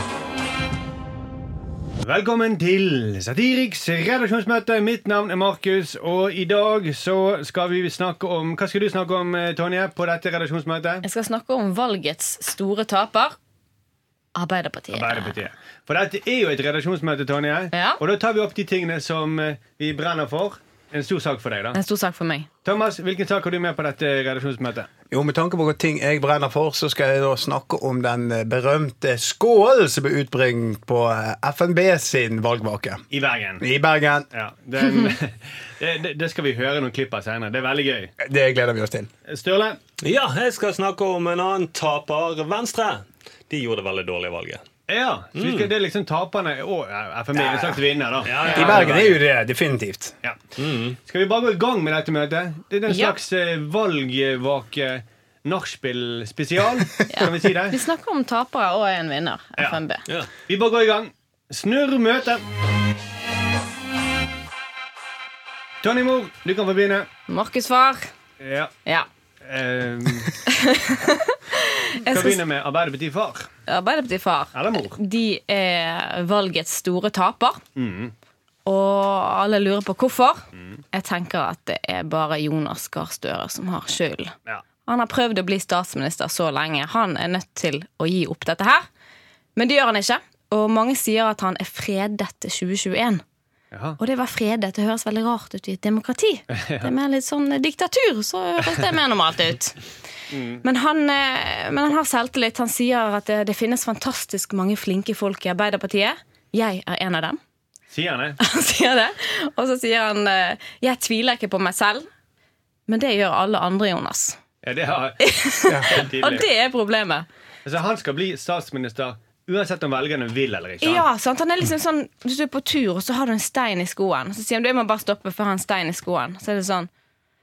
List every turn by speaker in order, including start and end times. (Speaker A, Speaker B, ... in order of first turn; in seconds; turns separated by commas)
Speaker A: 2.0-11.1, Speaker B: 11.0-13.4, Speaker B: 14.3-15.3, Speaker A: 14.9-21.8, Speaker B: 17.7-18.0, Speaker B: 21.7-22.5, Speaker A: 22.6-24.9, Speaker C: 25.1-33.0, Speaker A: 33.1-33.7, Speaker C: 33.6-34.3, Speaker A: 34.3-38.1, Speaker C: 38.2-39.1, Speaker A: 39.3-39.8, Speaker D: 40.0-44.6, Speaker A: 44.9-49.2, Speaker D: 45.4-45.7, Speaker D: 48.2-49.2, Speaker B: 48.4-48.7, Speaker C: 48.5-50.1, Speaker D: 50.6-51.0, Speaker A: 51.0-57.8, Speaker B: 52.9-53.2, Speaker B: 57.1-60.0, Speaker A: 60.5-62.5, Speaker A: 65.8-67.1, Speaker B: 67.3-68.1, Speaker A: 68.4-68.7, Speaker A: 69.4-70.4, Speaker B: 70.5-72.4, Speaker A: 72.1-73.5, Speaker B: 73.7-77.6, Speaker A: 74.5-75.0, Speaker A: 77.8-78.1, Speaker B: 78.7-80.4, Speaker A: 80.5-80.8, Speaker B: 80.9-84.3, Speaker B: 84.9-88.9, Speaker B: 89.6-93.2, Speaker A: 93.7-94.0, Speaker B: 94.0-99.8, Speaker A: 96.5-96.9, Speaker A: 100.3-100.6, Speaker B: 100.6-107.4, Speaker A: 107.9-108.4, Speaker B: 108.4-112.1, Speaker B: 112.9-114.4, Speaker A: 114.6-115.2, Speaker B: 115.2-117.3, Speaker C: 115.7-115.9, Speaker A: 115.8-116.5, Speaker A: 117.7-121.1, Speaker B: 120.8-126.9